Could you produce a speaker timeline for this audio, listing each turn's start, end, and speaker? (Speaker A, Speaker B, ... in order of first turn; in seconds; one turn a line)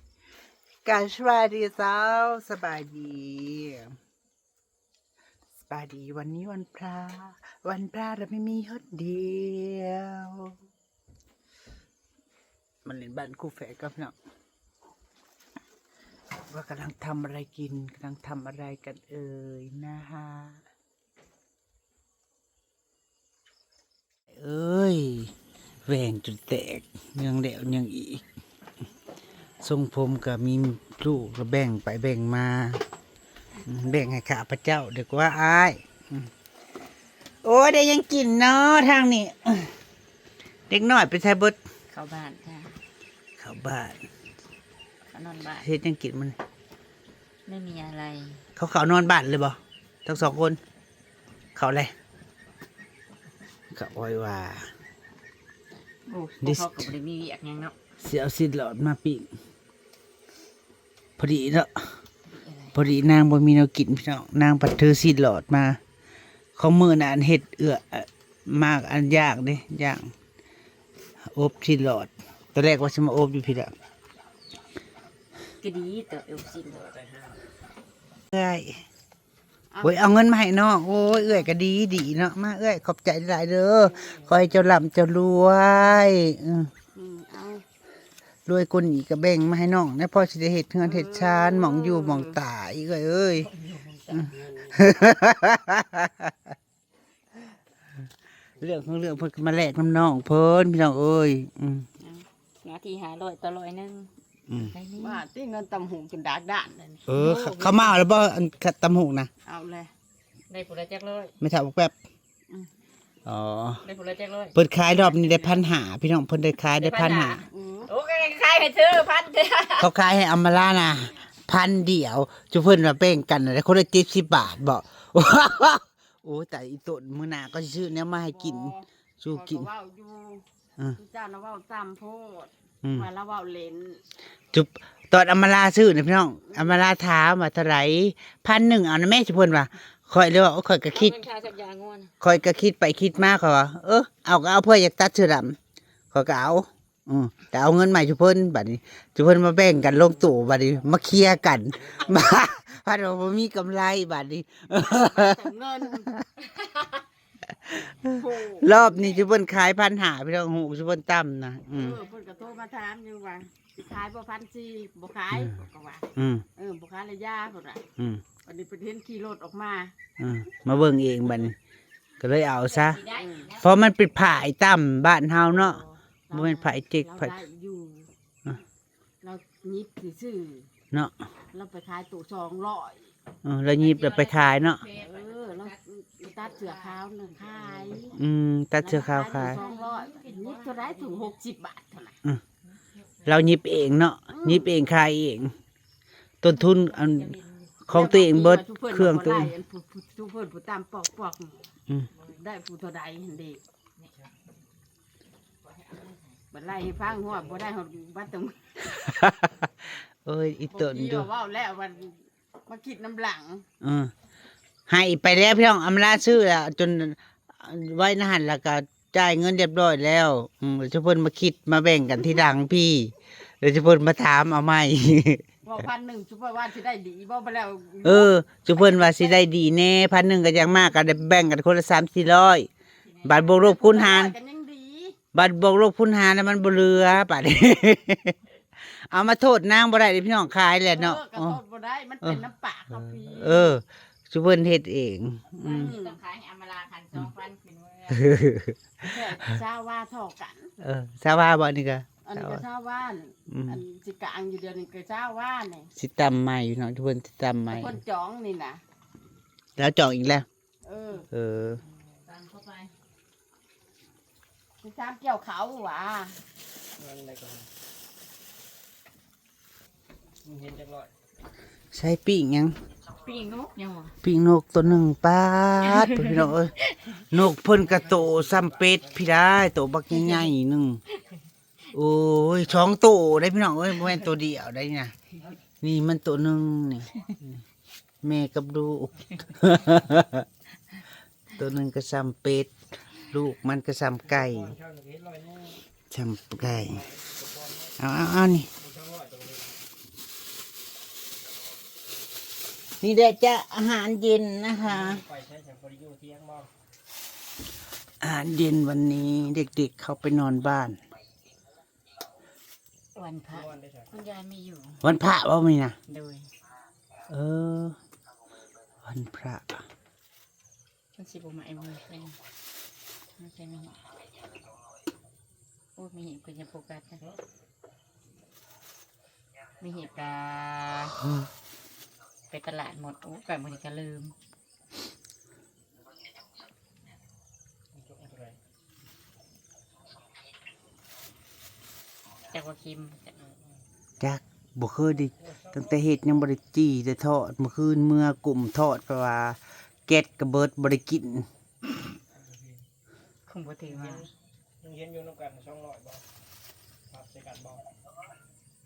Speaker A: 0.8-4.0
Speaker A: 5.7-10.6
Speaker A: 12.8-14.1
Speaker A: 16.5-20.6
Speaker A: 24.3-25.3
Speaker A: 25.9-28.2
Speaker A: 29.6-32.8
Speaker A: 33.6-36.3
Speaker A: 37.4-39.7
Speaker A: 40.7-41.6
Speaker B: 41.9-42.8
Speaker A: 43.4-44.0
Speaker B: 45.0-45.7
Speaker A: 45.6-46.4
Speaker B: 47.4-48.5
Speaker A: 48.5-50.6
Speaker A: 51.5-51.9
Speaker A: 53.7-54.7
Speaker B: 56.0-57.7
Speaker A: 56.4-56.9
Speaker A: 58.0-59.3
Speaker A: 61.2-62.0
Speaker B: 62.2-62.8
Speaker A: 62.7-65.8
Speaker A: 66.5-70.1
Speaker A: 71.2-73.7
Speaker B: 75.6-77.0
Speaker C: 76.9-77.3
Speaker A: 78.3-78.8
Speaker D: 79.7-80.1
Speaker A: 79.8-86.7
Speaker D: 81.2-81.5
Speaker D: 86.9-87.6
Speaker A: 88.5-93.5
Speaker D: 90.8-92.4
Speaker B: 93.4-94.5
Speaker A: 94.1-96.3
Speaker A: 98.6-101.9
Speaker B: 102.6-105.2
Speaker D: 105.0-107.1
Speaker A: 107.1-109.3
Speaker B: 107.1-107.9
Speaker D: 109.4-109.9
Speaker B: 110.5-111.3
Speaker A: 111.4-111.9
Speaker A: 113.2-113.8
Speaker B: 113.8-115.7
Speaker A: 114.5-117.4
Speaker B: 116.8-119.9
Speaker D: 117.5-117.9
Speaker A: 119.8-129.7
Speaker D: 128.3-134.0
Speaker A: 132.8-133.1
Speaker A: 134.5-141.2
Speaker D: 136.5-136.8
Speaker B: 140.9-142.1
Speaker A: 142.2-145.6
Speaker A: 146.1-155.4
Speaker D: 154.8-156.1
Speaker A: 157.5-162.0
Speaker D: 158.1-159.2
Speaker D: 161.7-167.8
Speaker A: 166.2-166.4
Speaker A: 168.0-168.2
Speaker D: 168.4-169.9
Speaker A: 170.2-171.6
Speaker A: 172.2-177.4
Speaker B: 172.9-173.4
Speaker D: 173.1-173.5
Speaker D: 175.5-178.1
Speaker D: 179.2-180.7
Speaker D: 181.5-183.1
Speaker A: 183.4-184.8
Speaker B: 184.0-185.1
Speaker D: 184.9-188.2
Speaker B: 186.4-186.9
Speaker B: 187.4-188.1
Speaker A: 188.1-189.6
Speaker D: 188.8-192.2
Speaker B: 189.1-191.3
Speaker A: 193.2-195.6
Speaker D: 194.3-194.7
Speaker A: 196.4-199.5
Speaker B: 196.7-197.7
Speaker D: 197.9-201.7
Speaker D: 202.3-203.6
Speaker B: 205.6-206.3
Speaker D: 206.5-208.9
Speaker A: 208.9-211.3
Speaker D: 210.7-213.7
Speaker A: 213.8-214.1
Speaker A: 214.9-225.4
Speaker D: 225.6-229.3
Speaker A: 228.0-234.3
Speaker D: 233.5-235.2
Speaker A: 235.3-241.6
Speaker D: 240.9-243.8
Speaker A: 242.9-245.9
Speaker B: 245.5-248.3
Speaker D: 245.8-246.2
Speaker A: 248.1-249.4
Speaker D: 249.0-250.7
Speaker A: 250.8-252.6
Speaker D: 252.2-255.9
Speaker A: 253.5-253.8
Speaker A: 255.9-258.0
Speaker D: 257.7-258.8
Speaker A: 259.8-260.4
Speaker D: 260.8-261.3
Speaker A: 261.3-261.8
Speaker B: 262.2-262.9
Speaker D: 264.8-266.4
Speaker C: 266.9-267.7
Speaker C: 270.4-271.1
Speaker A: 271.9-272.8
Speaker B: 273.2-274.2
Speaker A: 274.2-281.0
Speaker C: 278.0-279.2
Speaker B: 280.1-280.5
Speaker A: 281.9-285.1
Speaker A: 285.8-287.6
Speaker A: 288.2-290.4
Speaker A: 291.5-294.8
Speaker C: 294.3-295.8
Speaker A: 296.1-297.0
Speaker C: 296.9-297.9
Speaker A: 298.0-298.7
Speaker C: 298.8-299.8
Speaker A: 303.0-305.2
Speaker C: 304.8-306.7
Speaker A: 308.2-311.0
Speaker B: 313.1-315.0
Speaker C: 313.5-314.1
Speaker A: 315.0-316.0
Speaker B: 316.1-316.5
Speaker A: 317.3-318.0
Speaker A: 319.0-319.8
Speaker B: 321.1-322.4
Speaker B: 323.4-324.0
Speaker B: 325.9-327.2
Speaker B: 329.8-331.2
Speaker B: 332.5-334.3
Speaker C: 337.9-338.6
Speaker B: 342.5-343.3
Speaker A: 344.2-351.5
Speaker C: 345.4-345.9
Speaker C: 352.3-352.9
Speaker B: 353.4-354.3
Speaker C: 353.9-354.3
Speaker C: 354.8-356.3
Speaker C: 357.1-357.9